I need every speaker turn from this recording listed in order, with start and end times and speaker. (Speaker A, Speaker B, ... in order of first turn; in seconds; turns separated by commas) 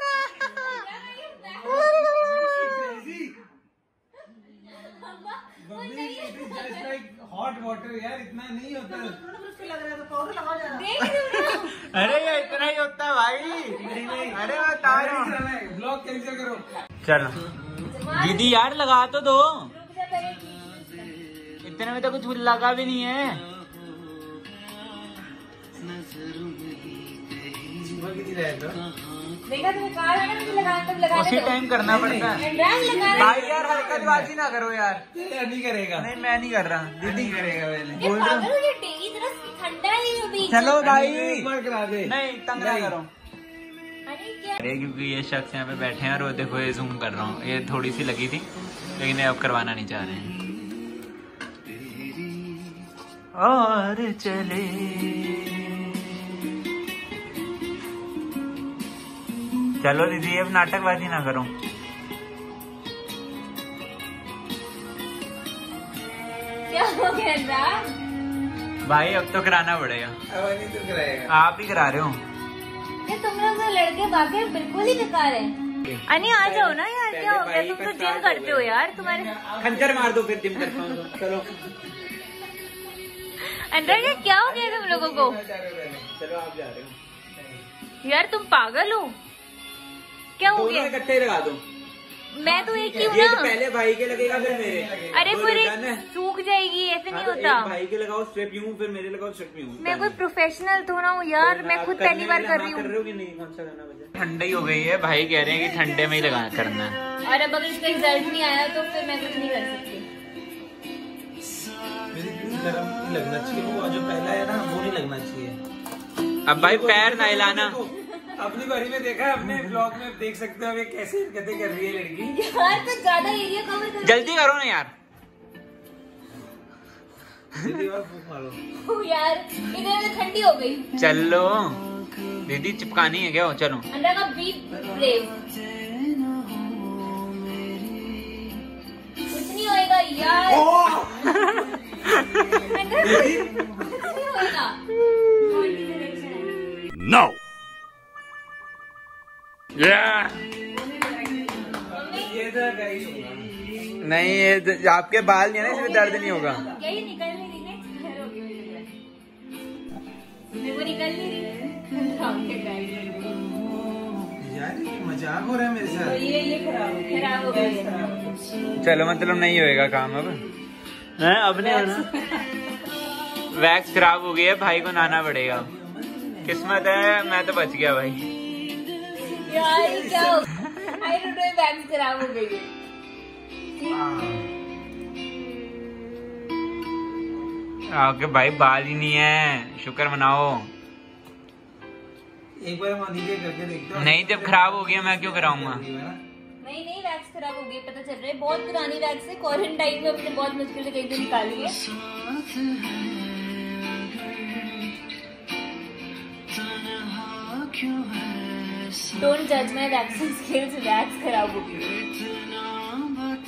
Speaker A: 0.3-2.9, Speaker B: 1.4-3.4, Speaker A: 4.3-7.0, Speaker B: 5.6-10.8, Speaker A: 10.7-12.8, Speaker C: 11.0-15.4, Speaker A: 13.5-14.5, Speaker B: 13.8-16.6, Speaker C: 17.0-17.4, Speaker A: 17.8-18.6, Speaker C: 18.1-19.7, Speaker A: 19.7-21.1, Speaker C: 21.6-23.4, Speaker B: 27.8-28.8, Speaker A: 29.4-31.6, Speaker C: 31.1-32.4, Speaker B: 31.8-34.3, Speaker A: 32.3-33.4, Speaker C: 33.1-35.0, Speaker B: 35.1-36.1, Speaker C: 36.0-38.5, Speaker B: 37.0-38.1, Speaker A: 38.0-40.7, Speaker C: 40.5-41.5, Speaker B: 40.5-43.0, Speaker C: 42.0-43.1, Speaker A: 44.1-44.6, Speaker C: 44.6-48.5, Speaker C: 49.0-50.4, Speaker C: 53.4-56.0, Speaker C: 59.8-61.5, Speaker A: 66.7-67.9, Speaker C: 68.8-70.2, Speaker B: 70.3-71.3, Speaker C: 71.3-72.2, Speaker A: 73.0-75.5, Speaker C: 75.8-78.7, Speaker A: 76.1-79.3, Speaker B: 79.0-80.2, Speaker C: 79.6-81.5, Speaker A: 83.4-85.4, Speaker B: 83.9-86.1, Speaker C: 84.2-85.0, Speaker C: 86.1-87.0, Speaker B: 87.4-87.6, Speaker A: 88.0-89.2, Speaker A: 90.4-91.0, Speaker C: 90.4-91.6, Speaker A: 92.3-93.5, Speaker B: 92.4-93.2, Speaker C: 92.9-96.0, Speaker B: 94.1-95.3, Speaker A: 95.1-97.8, Speaker C: 97.1-100.2, Speaker A: 99.8-102.9, Speaker C: 101.4-107.0, Speaker A: 107.2-110.1, Speaker B: 112.1-115.6, Speaker C: 116.5-117.8, Speaker B: 116.5-122.3, Speaker C: 119.4-119.9, Speaker A: 122.3-124.3, Speaker C: 124.0-124.9, Speaker B: 127.6-128.6, Speaker A: 128.8-130.9, Speaker C: 131.0-131.8, Speaker C: 132.5-133.9, Speaker A: 133.9-135.3, Speaker A: 139.3-141.1, Speaker B: 140.5-141.3, Speaker C: 141.3-142.2, Speaker A: 142.3-144.8, Speaker B: 142.9-144.0, Speaker A: 145.4-146.5, Speaker C: 149.8-150.4, Speaker A: 151.9-152.3, Speaker B: 151.9-153.5, Speaker C: 154.0-156.7, Speaker A: 155.6-158.9, Speaker A: 160.5-163.4, Speaker B: 164.4-166.2, Speaker A: 166.0-168.2, Speaker B: 167.3-168.2, Speaker C: 168.8-170.4, Speaker C: 171.2-172.4, Speaker A: 171.6-172.4, Speaker C: 173.5-175.7, Speaker B: 175.0-176.6, Speaker C: 176.4-178.3, Speaker A: 179.3-182.7, Speaker B: 179.3-180.4, Speaker A: 183.8-184.1, Speaker B: 183.9-184.4, Speaker C: 187.9-190.7, Speaker B: 192.6-196.2, Speaker C: 193.9-195.8, Speaker A: 196.6-201.8, Speaker A: 209.1-212.0